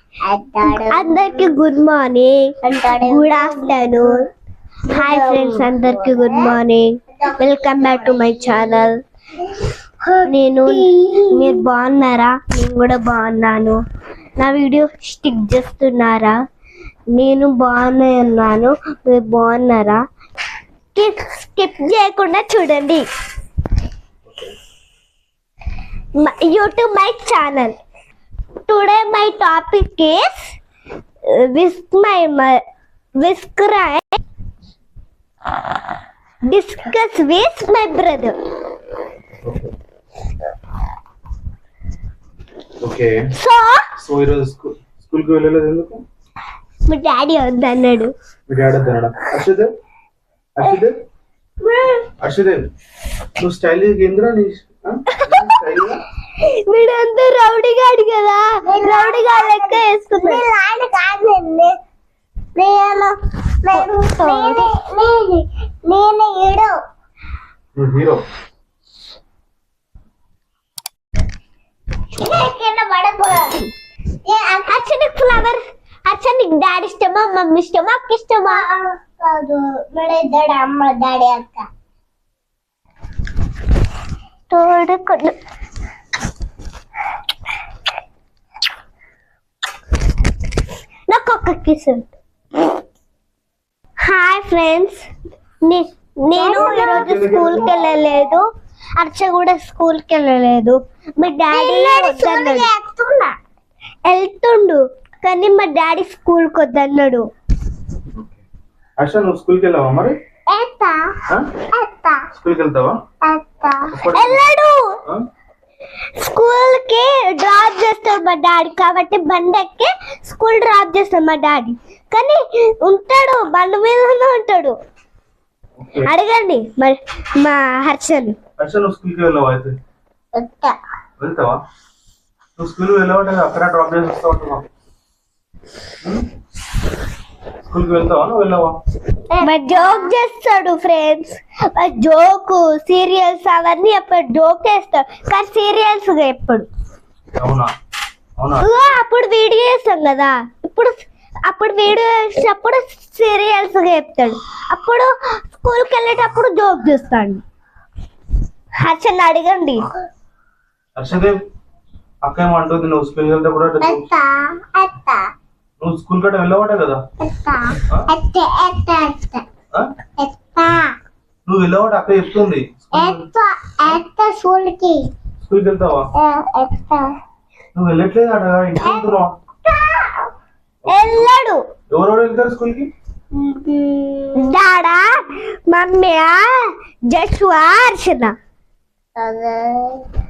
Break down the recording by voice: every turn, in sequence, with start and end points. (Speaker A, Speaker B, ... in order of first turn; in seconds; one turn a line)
Speaker A: 0.2-1.5
Speaker B: 0.7-4.2
Speaker A: 2.6-4.1
Speaker A: 4.9-6.5
Speaker B: 4.9-8.9
Speaker A: 7.2-8.8
Speaker A: 9.4-11.6
Speaker B: 10.3-13.8
Speaker B: 14.4-16.3
Speaker B: 17.1-20.0
Speaker B: 20.9-23.1
Speaker C: 24.3-24.5
Speaker B: 26.2-27.7
Speaker B: 28.6-30.5
Speaker B: 31.3-32.6
Speaker B: 33.2-34.1
Speaker B: 36.5-38.3
Speaker C: 39.4-39.7
Speaker C: 42.8-43.2
Speaker B: 43.4-43.8
Speaker C: 44.0-46.0
Speaker B: 46.9-48.1
Speaker C: 48.5-49.7
Speaker C: 50.6-51.0
Speaker B: 51.6-52.1
Speaker C: 52.2-52.7
Speaker C: 53.4-56.0
Speaker B: 55.1-55.5
Speaker B: 56.3-60.4
Speaker A: 58.6-61.8
Speaker A: 62.5-66.7
Speaker B: 63.7-64.7
Speaker C: 67.7-68.2
Speaker A: 72.2-73.6
Speaker A: 74.2-74.9
Speaker B: 74.7-78.7
Speaker A: 78.4-81.7
Speaker B: 84.5-85.3
Speaker B: 91.1-92.1
Speaker B: 94.0-95.0
Speaker B: 95.6-98.4
Speaker A: 96.3-97.2
Speaker C: 96.6-97.7
Speaker B: 99.0-102.7
Speaker A: 101.5-103.3
Speaker B: 104.0-107.2
Speaker C: 109.0-110.1
Speaker A: 110.5-111.0
Speaker A: 111.7-112.2
Speaker C: 112.3-113.0
Speaker A: 113.2-114.0
Speaker C: 113.9-114.4
Speaker B: 114.1-114.9
Speaker B: 116.2-124.7
Speaker C: 125.8-126.1
Speaker B: 126.0-128.4
Speaker C: 128.6-129.7
Speaker A: 130.3-130.8
Speaker C: 131.2-131.6
Speaker C: 132.6-134.6
Speaker C: 137.7-138.7
Speaker A: 139.3-140.1
Speaker B: 139.4-146.7
Speaker C: 147.4-147.7
Speaker C: 148.4-148.7
Speaker B: 148.6-157.4
Speaker B: 158.8-159.8
Speaker C: 161.0-161.4
Speaker C: 162.2-164.1
Speaker A: 163.8-165.3
Speaker C: 165.8-167.0
Speaker A: 167.2-169.4
Speaker A: 170.2-170.9
Speaker C: 171.5-173.3
Speaker A: 172.9-175.1
Speaker C: 175.4-176.1
Speaker A: 176.2-177.1
Speaker C: 177.7-179.3
Speaker A: 178.8-179.1
Speaker A: 179.7-180.2
Speaker C: 180.8-181.3
Speaker B: 180.9-181.6
Speaker C: 181.9-182.9
Speaker A: 183.3-184.5
Speaker B: 184.3-188.3
Speaker A: 189.2-190.0